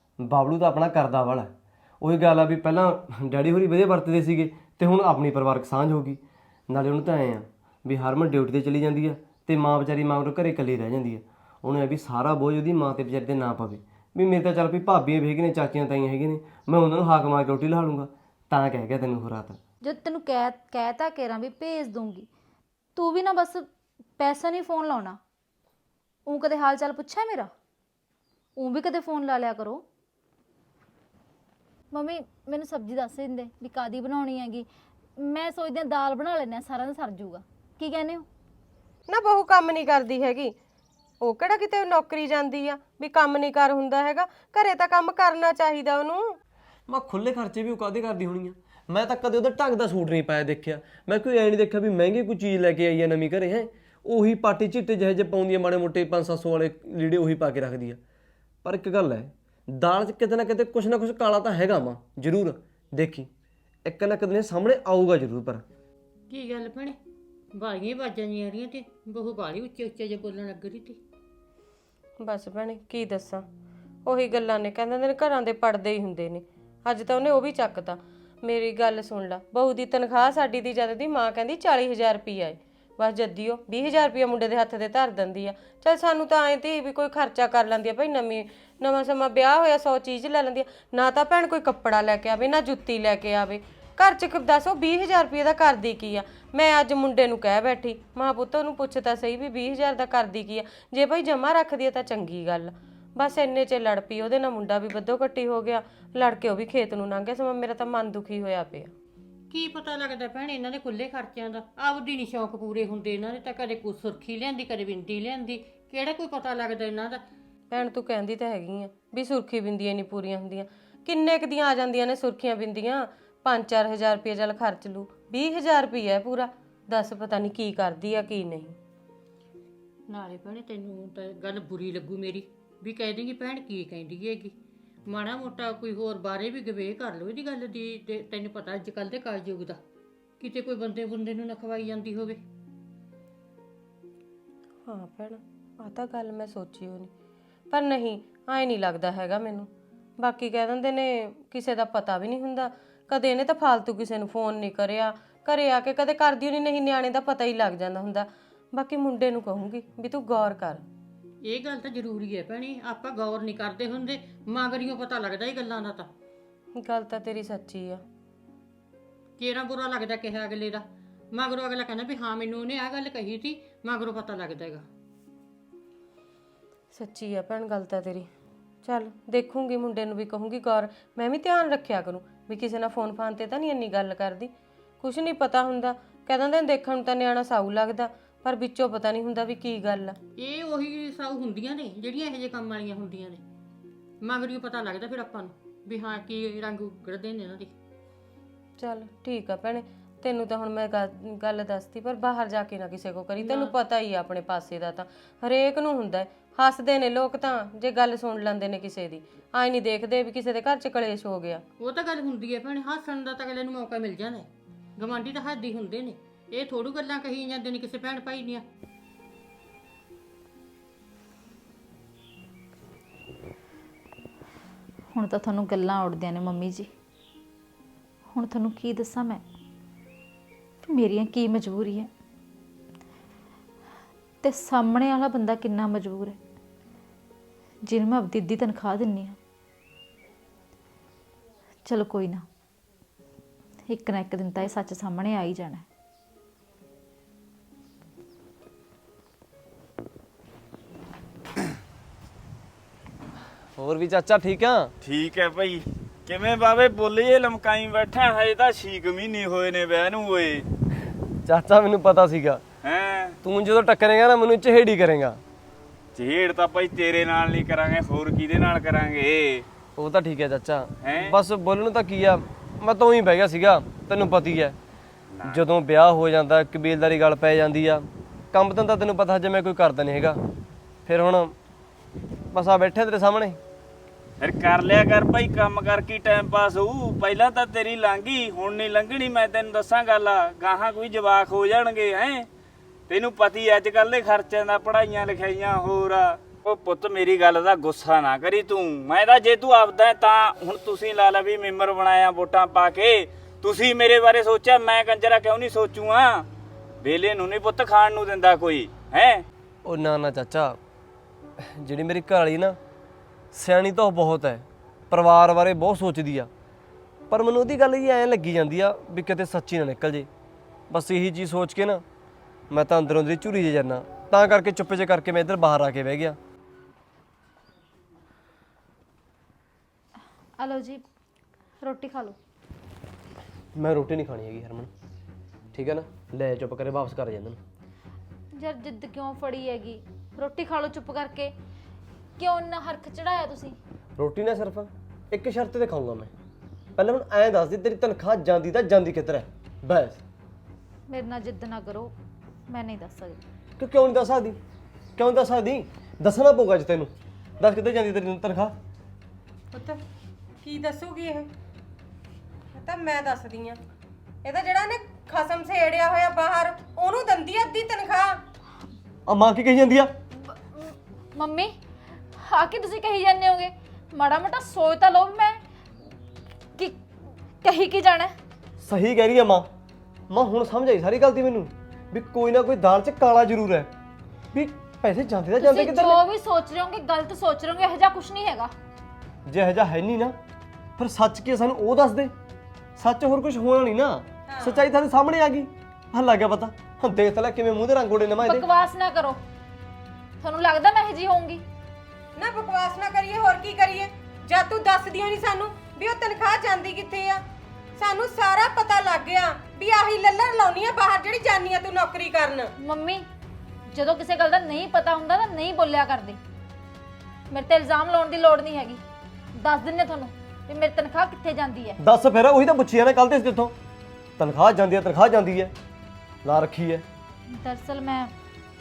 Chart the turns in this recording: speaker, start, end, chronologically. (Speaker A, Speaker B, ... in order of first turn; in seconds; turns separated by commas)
Speaker A: 0.2-1.5, Speaker A: 2.0-6.2, Speaker A: 6.7-19.6, Speaker B: 19.8-22.3, Speaker B: 22.9-23.7, Speaker B: 24.2-25.2, Speaker B: 26.2-27.5, Speaker B: 28.6-29.9, Speaker B: 31.9-34.7, Speaker B: 35.2-38.2, Speaker C: 39.1-40.5, Speaker C: 41.2-46.4, Speaker A: 46.9-58.0, Speaker A: 58.6-63.3, Speaker A: 63.8-65.6, Speaker D: 66.3-67.0, Speaker D: 67.5-71.0, Speaker C: 72.2-73.4, Speaker C: 74.0-108.9, Speaker D: 109.5-117.2, Speaker C: 117.7-128.7, Speaker D: 130.1-134.5, Speaker D: 135.1-139.8, Speaker D: 140.4-142.4, Speaker C: 144.8-147.1, Speaker C: 147.7-160.8, Speaker D: 161.4-166.1, Speaker C: 166.7-168.0, Speaker D: 169.4-174.8, Speaker C: 176.9-178.3, Speaker C: 178.8-190.2, Speaker D: 190.4-193.4, Speaker D: 194.2-197.7, Speaker C: 198.8-211.6, Speaker D: 203.4-203.8, Speaker D: 211.8-218.6, Speaker B: 225.1-226.9, Speaker B: 228.3-229.4, Speaker B: 230.9-232.1, Speaker B: 234.4-236.4, Speaker B: 237.8-239.4, Speaker B: 241.8-242.4, Speaker B: 243.9-245.8, Speaker A: 253.8-254.9, Speaker E: 255.0-260.6, Speaker A: 261.4-262.6, Speaker E: 262.8-263.3, Speaker A: 263.4-265.4, Speaker E: 266.1-269.6, Speaker A: 270.0-274.8, Speaker E: 271.0-271.4, Speaker E: 275.3-275.6, Speaker A: 275.5-280.4, Speaker A: 281.1-281.5, Speaker A: 282.5-283.6, Speaker E: 284.4-292.5, Speaker E: 293.1-306.5, Speaker E: 307.0-309.4, Speaker A: 309.8-310.8, Speaker A: 311.6-312.8, Speaker A: 313.5-316.5, Speaker A: 317.3-320.3, Speaker A: 320.9-322.0, Speaker A: 322.7-326.4, Speaker B: 330.6-331.0, Speaker B: 331.8-332.4, Speaker A: 333.7-334.9, Speaker A: 335.7-337.6, Speaker B: 338.6-341.5, Speaker B: 342.4-343.8, Speaker A: 344.2-346.3, Speaker A: 347.0-350.2, Speaker B: 351.1-352.1, Speaker B: 352.7-353.4, Speaker A: 353.8-354.6, Speaker A: 355.2-358.7, Speaker C: 359.7-360.0, Speaker C: 360.6-361.5, Speaker C: 362.7-363.8, Speaker C: 364.4-368.4, Speaker A: 369.3-370.1, Speaker B: 370.5-371.7, Speaker B: 372.4-375.6, Speaker B: 377.6-378.3, Speaker A: 378.8-379.7, Speaker A: 380.3-383.9, Speaker A: 384.5-386.2, Speaker B: 385.6-388.7, Speaker A: 389.4-390.4, Speaker A: 391.0-392.3, Speaker A: 393.0-398.7, Speaker C: 394.5-394.8, Speaker B: 398.4-399.4, Speaker B: 400.4-401.6, Speaker C: 402.4-407.4, Speaker C: 408.0-412.7, Speaker B: 412.8-413.3, Speaker B: 413.9-416.4, Speaker B: 417.5-419.0, Speaker B: 419.5-422.0, Speaker A: 422.0-423.7, Speaker A: 424.4-425.7, Speaker A: 426.4-427.0, Speaker B: 427.6-428.3